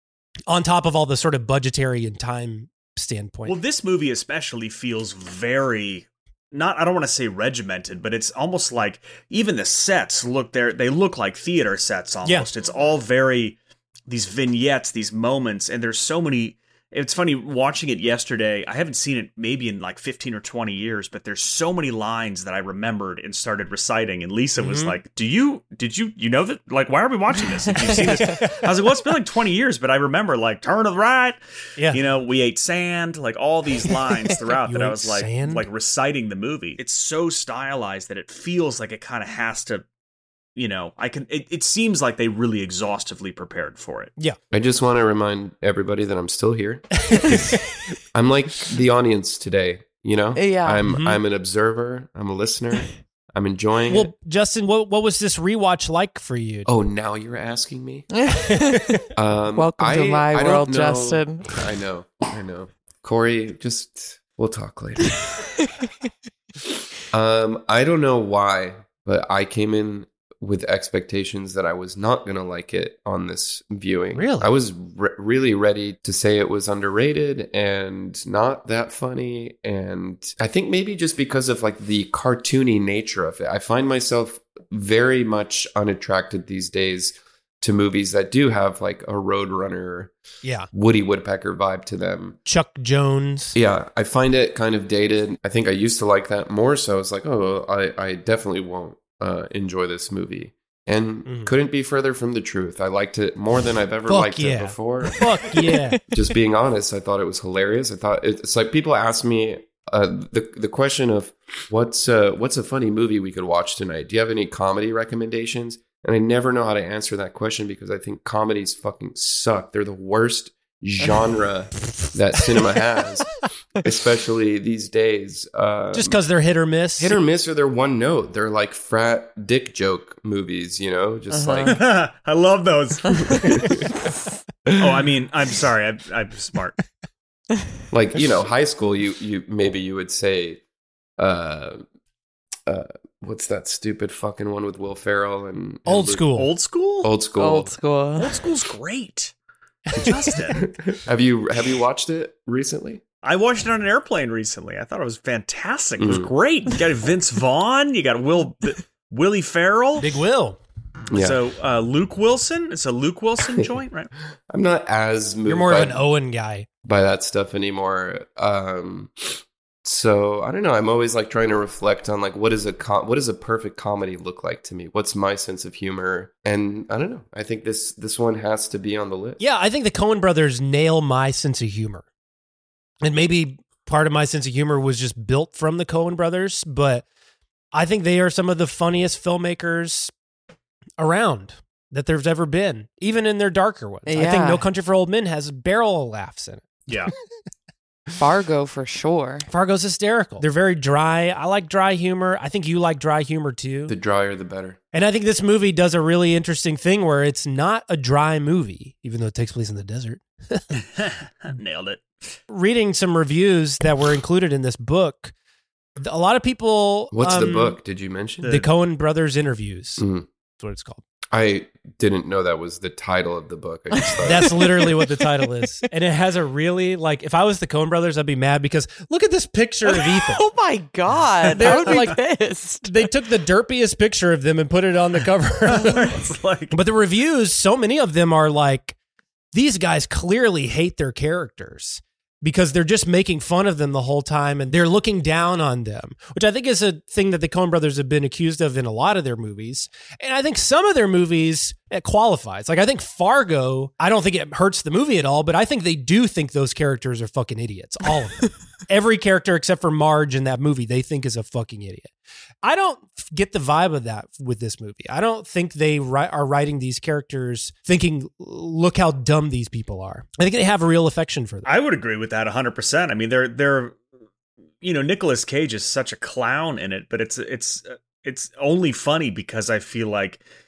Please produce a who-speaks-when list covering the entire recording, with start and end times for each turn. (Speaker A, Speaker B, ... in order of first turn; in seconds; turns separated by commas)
Speaker A: 0.5-3.6, Speaker B: 3.5-39.9, Speaker A: 24.6-25.0, Speaker A: 27.9-28.4, Speaker A: 33.9-35.7, Speaker B: 40.6-44.1, Speaker C: 44.5-47.6, Speaker C: 48.1-54.1, Speaker D: 50.4-50.8, Speaker A: 50.9-51.2, Speaker A: 53.9-56.7, Speaker C: 56.7-58.1, Speaker D: 58.1-58.9, Speaker C: 59.1-65.3, Speaker D: 59.6-61.6, Speaker C: 67.1-90.1, Speaker A: 74.1-74.5, Speaker A: 90.4-90.7, Speaker C: 90.7-92.4, Speaker A: 92.5-93.6, Speaker C: 93.5-126.2, Speaker A: 101.3-101.5, Speaker A: 104.1-106.0, Speaker A: 125.9-127.2, Speaker C: 127.0-131.8, Speaker D: 131.3-131.8, Speaker B: 131.7-133.5, Speaker C: 133.5-133.9, Speaker B: 134.8-136.8, Speaker C: 137.9-140.6, Speaker C: 141.2-141.8, Speaker C: 142.7-146.3, Speaker A: 145.8-146.5, Speaker B: 146.4-147.1, Speaker C: 147.0-147.7, Speaker D: 147.4-148.3, Speaker B: 148.2-149.3, Speaker A: 149.9-150.4, Speaker B: 150.0-150.6, Speaker C: 150.6-153.0, Speaker B: 153.2-160.1, Speaker C: 156.0-156.3, Speaker A: 160.0-160.6, Speaker C: 161.1-161.4, Speaker B: 161.2-164.1, Speaker C: 164.5-166.0, Speaker A: 165.4-166.7, Speaker C: 166.8-179.4, Speaker A: 179.4-182.1, Speaker A: 183.0-187.1, Speaker A: 187.7-190.1, Speaker A: 191.0-196.8, Speaker D: 194.1-194.6, Speaker D: 198.2-199.5, Speaker A: 199.5-203.9, Speaker C: 203.9-204.8, Speaker A: 204.9-210.7, Speaker B: 210.8-212.4, Speaker A: 212.5-215.3, Speaker A: 216.0-217.8, Speaker C: 217.1-218.5, Speaker B: 218.4-218.7, Speaker A: 218.4-220.1, Speaker C: 220.0-220.3, Speaker A: 220.6-221.0, Speaker C: 221.3-224.6, Speaker D: 224.0-224.9, Speaker A: 224.2-230.4, Speaker D: 229.9-233.1, Speaker B: 231.5-232.1, Speaker A: 231.5-232.2, Speaker A: 232.9-236.1, Speaker B: 235.7-236.8, Speaker A: 236.7-239.0, Speaker A: 239.5-271.7, Speaker B: 271.7-274.0, Speaker B: 274.8-280.4